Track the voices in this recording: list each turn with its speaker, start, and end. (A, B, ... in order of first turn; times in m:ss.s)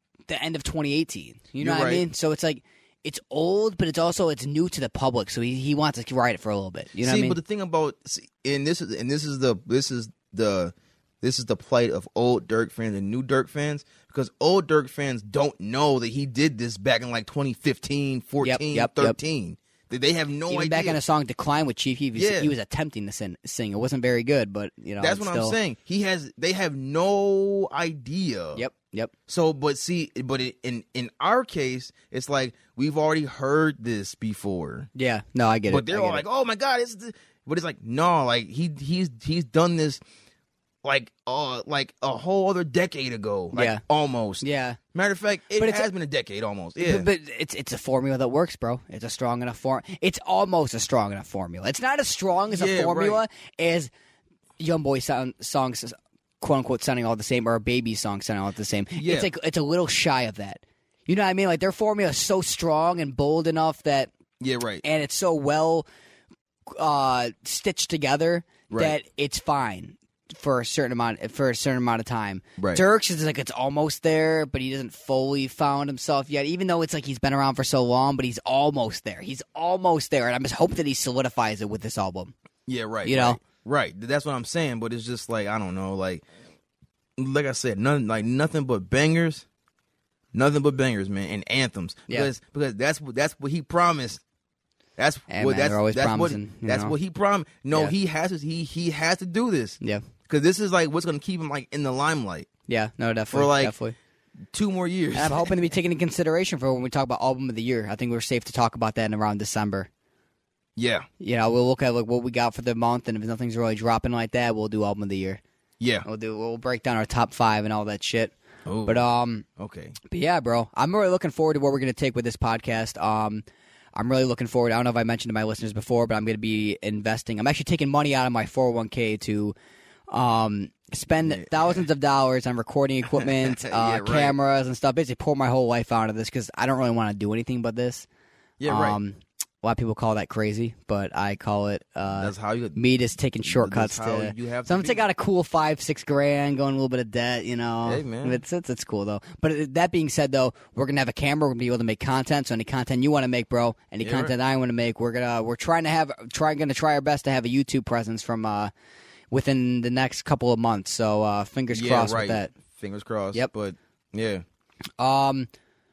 0:00.3-0:07.4 A
0:01.6-0:02.1 B
0:07.0-0:21.0 B
0:18.4-0:19.2 A
0:20.5-0:25.6 A
0:22.2-0:22.5 B
0:25.0-0:28.6 B
0:28.6-0:29.1 A
0:29.3-0:34.9 B
0:34.9-0:36.2 A
0:35.7-0:40.0 B
0:40.8-0:47.1 B
0:43.5-0:43.8 A
0:44.4-0:44.8 A
0:45.6-0:45.9 A
0:46.8-0:53.9 A
0:52.5-0:53.2 B
0:54.6-1:04.1 A
0:59.0-0:59.3 B
1:04.4-1:04.8 B
1:04.8-1:05.8 A
1:06.7-1:22.3 A
1:08.7-1:08.9 B
1:12.6-1:12.8 B
1:22.7-1:26.2 B
1:23.0-1:23.4 A
1:27.2-1:29.4 B
1:30.3-1:34.2 B
1:35.0-1:39.8 B
1:35.3-1:36.9 A
1:40.3-1:42.5 B
1:42.7-1:44.0 A
1:43.3-1:43.7 B
1:44.5-1:45.5 B
1:45.1-1:49.9 A
1:50.8-1:51.1 B
1:51.2-1:55.4 A
1:55.8-1:56.0 B
1:56.0-1:58.3 A
1:58.6-2:00.0 B
1:58.8-1:59.4 A
2:00.0-2:03.4 A
2:03.9-2:09.5 A
2:10.1-2:18.1 A
2:11.2-2:11.8 B
2:13.2-2:14.3 B
2:18.6-2:19.0 B
2:18.6-2:38.7 A
2:22.1-2:22.8 B
2:23.4-2:25.0 B
2:27.8-2:28.4 B
2:34.0-2:34.3 B
2:39.3-2:42.5 A
2:41.7-2:44.4 B
2:45.0-2:45.5 A